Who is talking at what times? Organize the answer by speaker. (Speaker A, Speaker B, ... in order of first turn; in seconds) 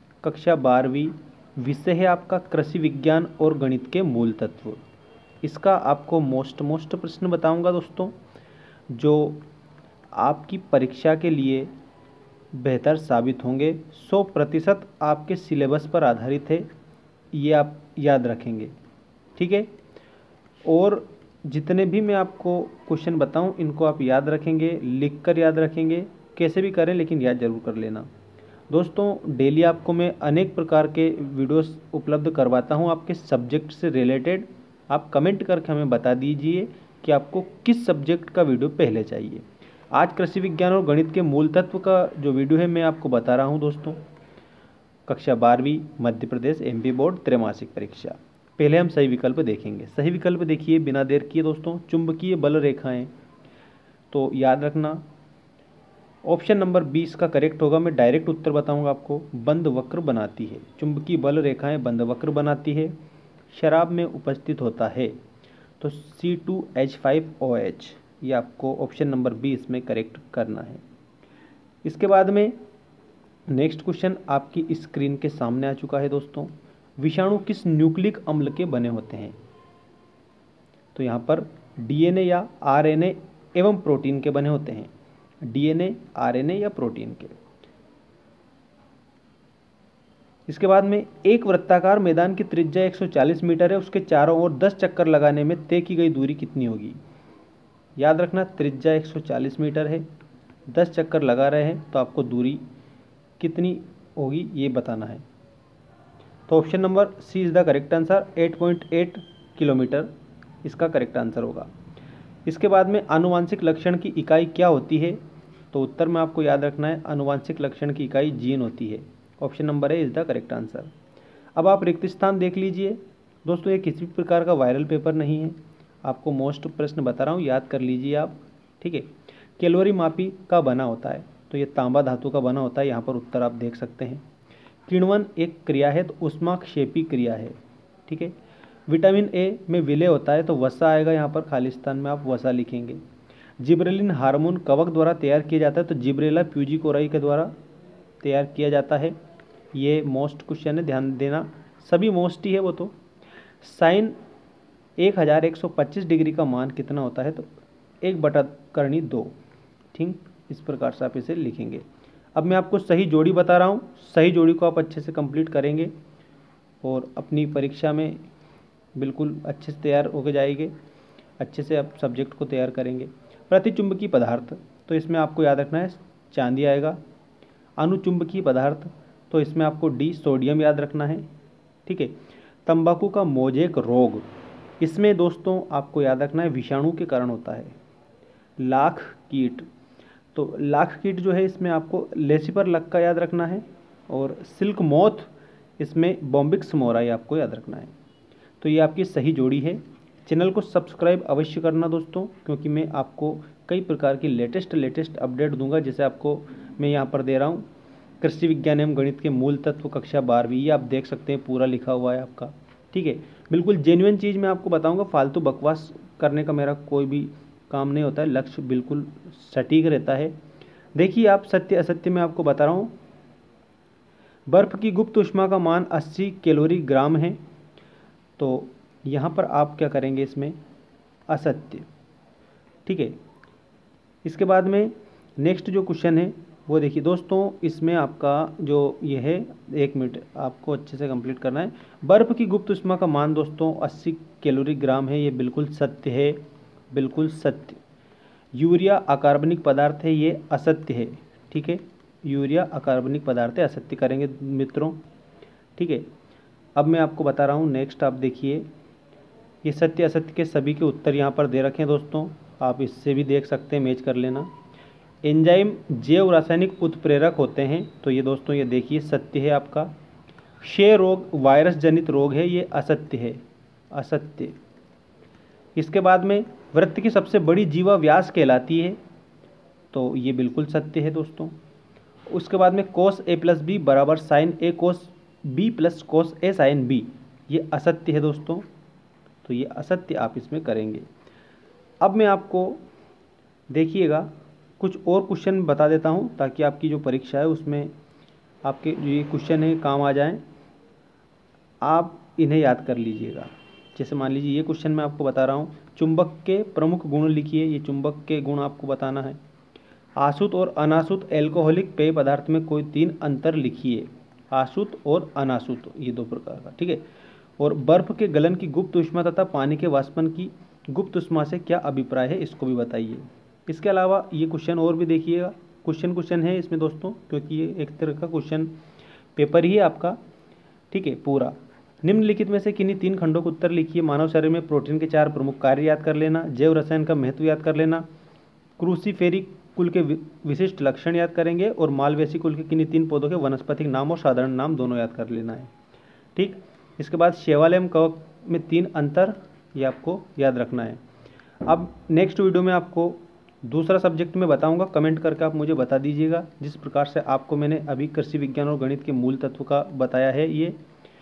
Speaker A: 0.2-4.8, 5.4-8.2, 8.9-9.4, 10.1-11.7, 12.5-16.7, 17.3-18.7, 19.4-19.7, 20.6-28.1, 28.7-44.0, 45.1-53.1, 54.1-55.0, 56.2-63.0, 63.5-65.2, 65.8-70.8, 71.8-72.6, 73.5-79.4, 80.9-84.9, 85.4-87.4, 90.5-97.0, 98.0-100.0, 100.7-102.6, 103.4-105.2, 106.5-110.1, 110.6-111.7, 112.5-115.2, 115.7-120.9, 121.5-134.2, 134.9-138.3, 138.9-143.0, 143.6-147.5, 148.2-149.2, 149.7-152.9, 153.6-154.2, 155.0-157.5, 158.0-159.3, 159.9-165.9, 166.8-168.2, 168.9-170.7, 171.4-177.0, 177.8-181.3, 181.8-184.3, 184.8-187.7, 188.6-189.7, 190.3-197.9, 198.6-207.6, 208.2-220.3, 220.9-222.9, 224.5-227.4, 228.4-230.6, 231.3-231.9, 232.8-233.2, 234.2-246.4, 246.9-247.8, 248.5-255.0, 255.8-256.1, 256.8-258.7, 259.6-264.5, 265.2-269.9, 270.6-274.6, 275.8-279.0, 279.9-281.5, 282.3-288.6, 289.4-291.1, 292.0-292.8, 293.7-297.9, 298.6-300.4, 301.8-309.4, 310.2-317.0, 317.6-328.7, 329.4-330.2, 330.9-338.1, 338.8-345.7, 346.4-351.0, 351.6-360.8